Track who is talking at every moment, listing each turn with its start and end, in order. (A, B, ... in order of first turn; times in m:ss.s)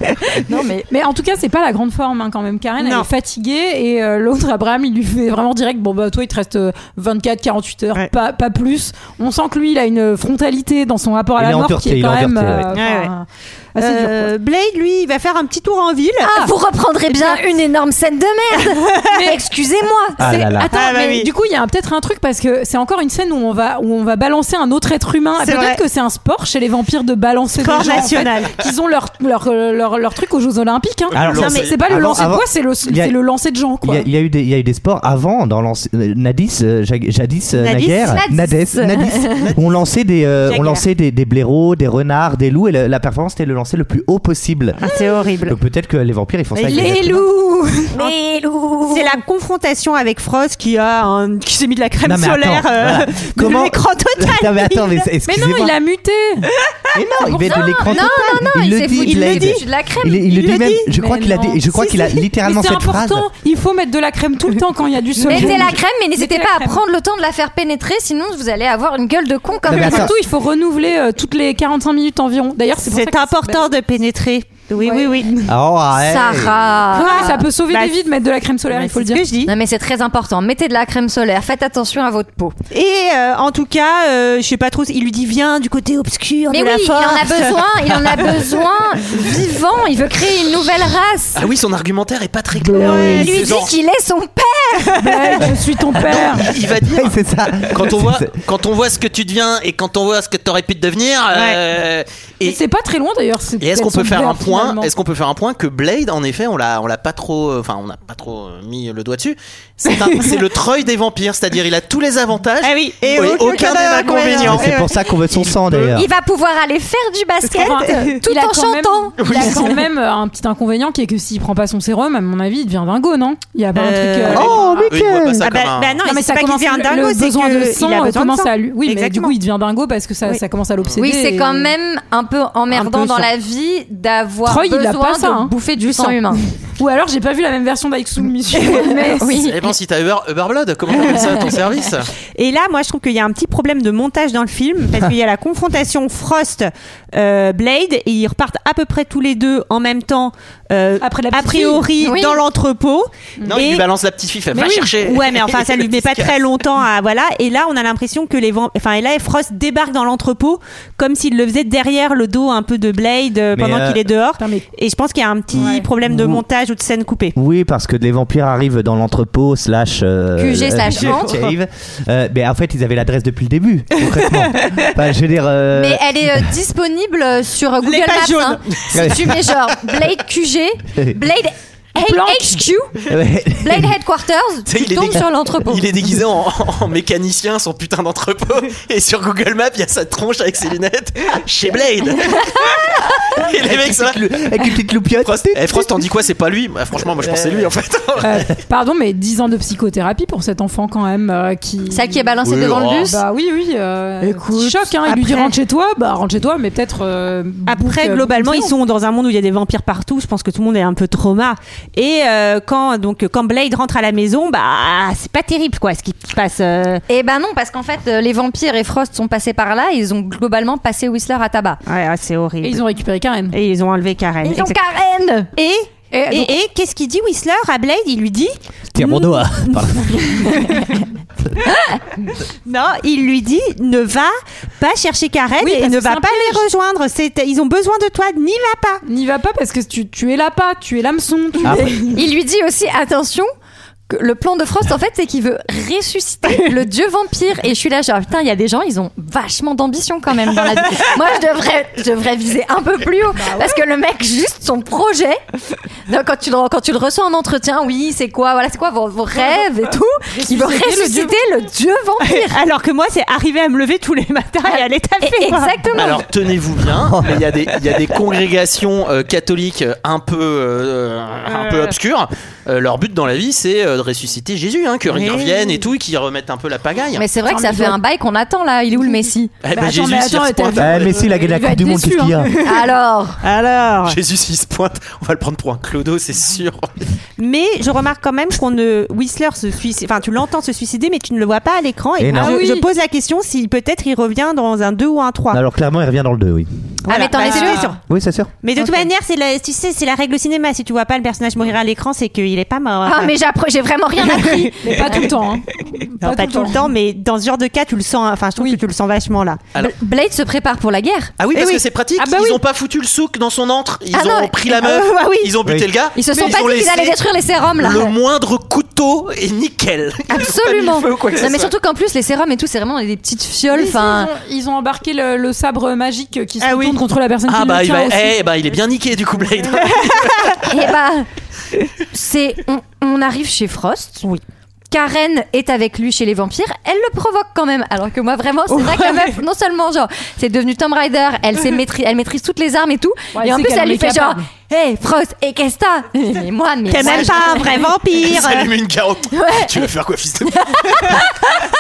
0:00.4-0:00.9 A
0:00.9-0:14.3 B
0:02.8-0:03.1 C
0:11.4-0:12.7 D
0:12.7-0:13.1 C
0:13.8-0:16.5 C
0:16.2-0:20.6 A
0:17.1-0:17.4 C
0:19.1-0:19.4 B
0:20.2-0:20.7 D
0:20.2-0:34.0 B
0:20.7-0:21.3 C
0:25.4-0:25.8 C
0:27.6-0:28.6 C
0:31.1-0:31.8 E
0:31.1-0:33.2 D
0:33.8-0:44.8 D
0:37.6-0:38.2 C
0:37.9-0:39.5 A
0:39.4-0:39.8 E
0:40.4-0:40.9 C
0:44.8-0:45.6 C
0:45.4-0:47.2 D
0:46.6-0:47.4 C
0:46.7-0:47.8 B
0:48.0-0:49.2 A
0:48.9-0:55.1 C
0:52.0-0:55.8 D
0:55.2-0:56.5 B
0:56.6-0:57.0 C
0:56.9-1:03.3 D
0:57.2-1:00.3 A
0:59.0-0:59.6 C
1:00.3-1:00.9 C
1:00.9-1:06.8 B
1:05.2-1:10.1 A
1:09.7-1:10.1 D
1:09.7-1:13.7 B
1:12.8-1:15.3 C
1:14.8-1:15.5 B
1:15.5-1:16.8 D
1:16.0-1:17.4 A
1:16.9-1:18.0 C
1:16.9-1:19.2 B
1:18.7-1:19.5 C
1:19.5-1:22.6 A
1:22.7-1:28.4 C
1:26.5-1:31.4 A
1:31.4-1:33.8 E
1:32.6-1:33.3 B
1:32.8-1:33.7 C
1:33.1-1:35.1 A
1:35.0-1:36.5 B
1:35.1-1:35.4 C
1:36.0-1:42.6 E
1:36.0-1:38.4 D
1:41.3-1:41.6 C
1:42.4-1:44.9 B
1:43.6-1:54.8 E
1:50.0-1:50.4 C
1:52.6-1:54.9 C
1:54.3-1:56.1 D
1:55.4-1:56.0 E
1:55.9-1:59.4 A
1:57.5-2:04.7 B
1:57.9-1:58.1 C
1:59.2-1:59.7 E
2:03.8-2:04.6 C
2:04.3-2:05.5 D
2:04.3-2:06.0 E
2:05.4-2:09.4 C
2:06.0-2:11.7 B
2:11.0-2:16.4 A
2:14.4-2:19.4 B
2:19.2-2:19.6 A
2:19.3-2:22.1 E
2:22.4-2:33.8 C
2:31.0-2:31.9 B
2:32.0-2:32.4 A
2:33.5-2:36.4 E
2:34.5-2:35.0 B
2:35.0-2:47.4 C
2:43.5-2:44.1 D
2:44.4-2:44.6 B
2:45.6-2:45.9 B
2:45.6-2:46.4 D
2:47.4-2:56.5 D
2:50.4-2:51.4 A
2:50.9-2:51.4 C
2:54.0-2:54.9 C
2:55.7-3:05.9 A
2:57.8-2:58.8 C
2:58.9-2:59.4 D
3:02.0-3:02.7 B
3:03.1-3:03.9 D
3:04.7-3:14.2 E
3:13.4-3:16.1 D
3:15.2-3:18.5 E
3:17.2-3:17.7 D
3:18.2-3:22.3 B
3:21.9-3:23.2 A
3:22.4-3:23.2 E
3:23.0-3:28.7 B
3:24.2-3:25.6 C
3:27.7-3:37.0 C
3:37.1-3:41.8 A
3:41.9-3:42.8 C
3:42.6-3:43.6 B
3:43.5-3:44.8 C
3:44.4-3:45.5 A
3:45.6-3:51.0 C
3:46.1-3:46.5 B
3:48.9-3:50.7 D
3:52.7-3:59.0 C
3:55.6-3:56.6 B
3:59.0-4:02.2 B
4:01.6-4:02.0 D
4:01.6-4:03.5 A
4:04.1-4:15.4 A
4:13.4-4:13.8 B
4:16.1-4:22.6 A
4:20.3-4:21.4 B
4:22.3-4:25.9 C
4:25.2-4:26.2 A
4:26.0-4:37.2 E
4:27.1-4:27.4 D
4:31.5-4:32.0 C
4:35.1-4:35.8 C
4:37.2-4:39.5 A
4:37.4-4:38.0 B
4:39.0-4:42.8 B
4:39.6-4:41.5 E
4:40.8-4:42.5 D
4:42.6-4:43.4 A
4:43.4-4:44.2 C
4:44.1-4:46.9 E
4:47.4-4:55.6 C
4:52.2-4:52.6 D
4:52.3-4:52.9 B
4:55.5-4:56.7 D
4:57.1-4:57.9 A
4:57.1-4:58.0 C
4:57.4-4:57.9 B
4:58.1-4:58.5 D
4:58.6-5:03.3 C
4:58.8-4:59.1 B
5:03.1-5:05.2 A
5:04.2-5:05.3 C
5:04.8-5:06.8 B
5:06.0-5:09.6 C
5:09.8-5:11.3 A
5:11.4-5:17.2 E
5:11.5-5:11.8 C
5:12.2-5:12.6 B
5:14.1-5:14.6 A
5:14.7-5:15.6 C
5:15.6-5:15.9 D
5:16.2-5:18.1 A
5:17.8-5:21.7 E
5:20.3-5:24.3 A
5:23.7-5:28.4 B
5:26.6-5:27.0 C
5:27.5-5:30.6 E
5:29.9-5:30.5 C
5:30.6-5:31.3 A
5:32.1-5:34.3 A
5:34.9-5:47.8 A
5:38.7-5:39.4 C
5:43.3-5:44.5 B
5:46.9-5:48.7 C
5:47.0-5:51.3 E
5:49.3-5:49.8 A
5:50.5-5:51.5 A